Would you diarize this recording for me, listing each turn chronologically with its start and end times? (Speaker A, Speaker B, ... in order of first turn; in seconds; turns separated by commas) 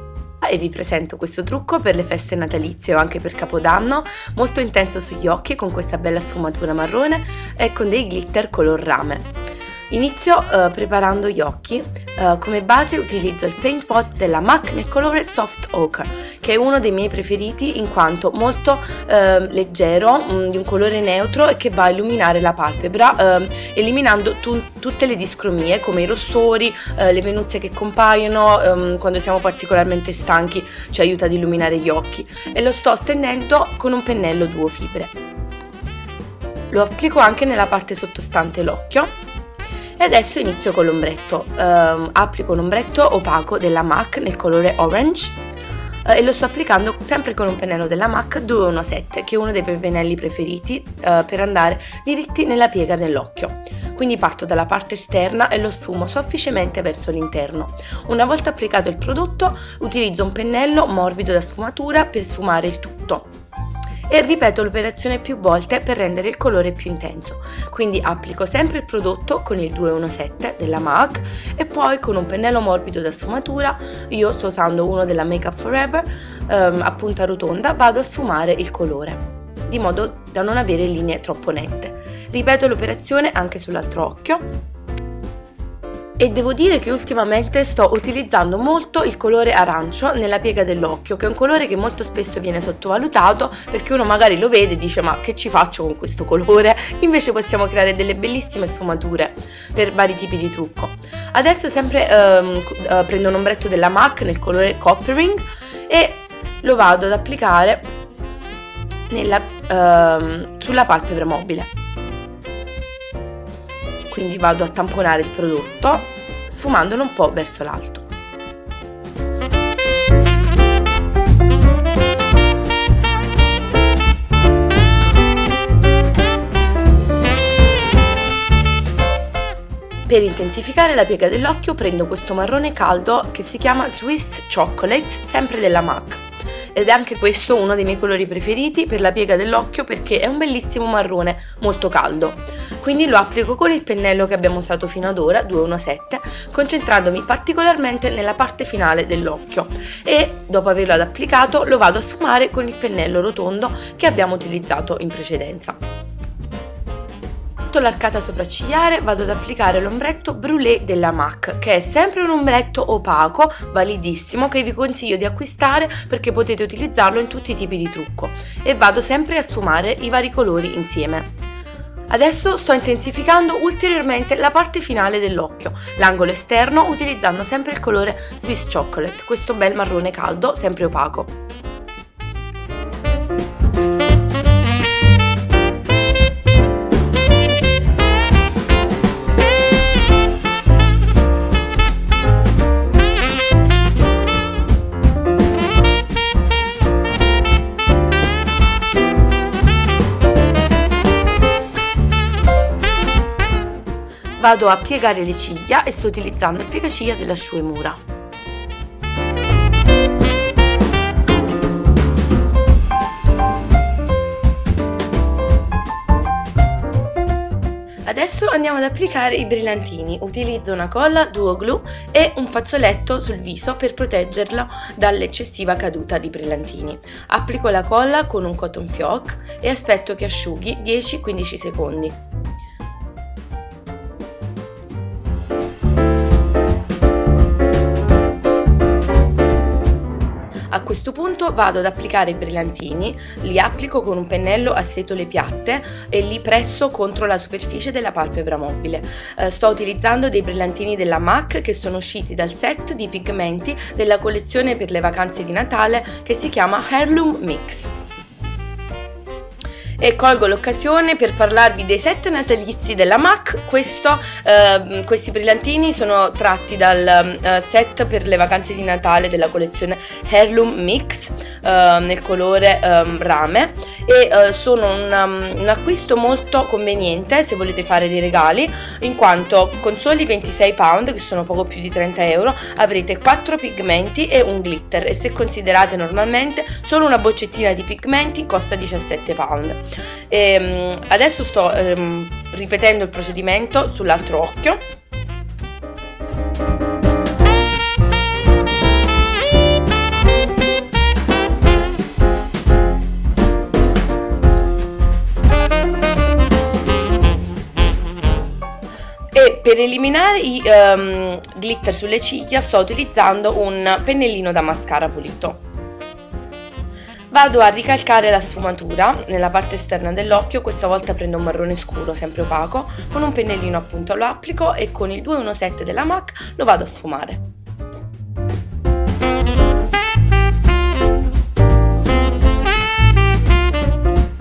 Speaker A: 0.4-9.3, Speaker A: 9.9-35.1, Speaker A: 36.7-39.1, Speaker A: 40.0-45.4, Speaker A: 46.0-63.3, Speaker A: 64.1-84.4, Speaker A: 86.2-107.9, Speaker A: 109.1-111.7, Speaker A: 114.1-118.1, Speaker A: 130.1-155.8, Speaker A: 157.7-171.3, Speaker A: 172.1-181.3, Speaker A: 204.4-208.0, Speaker A: 218.1-232.2, Speaker A: 240.7-257.9, Speaker A: 260.0-294.8, Speaker A: 309.3-315.6, Speaker A: 317.3-327.4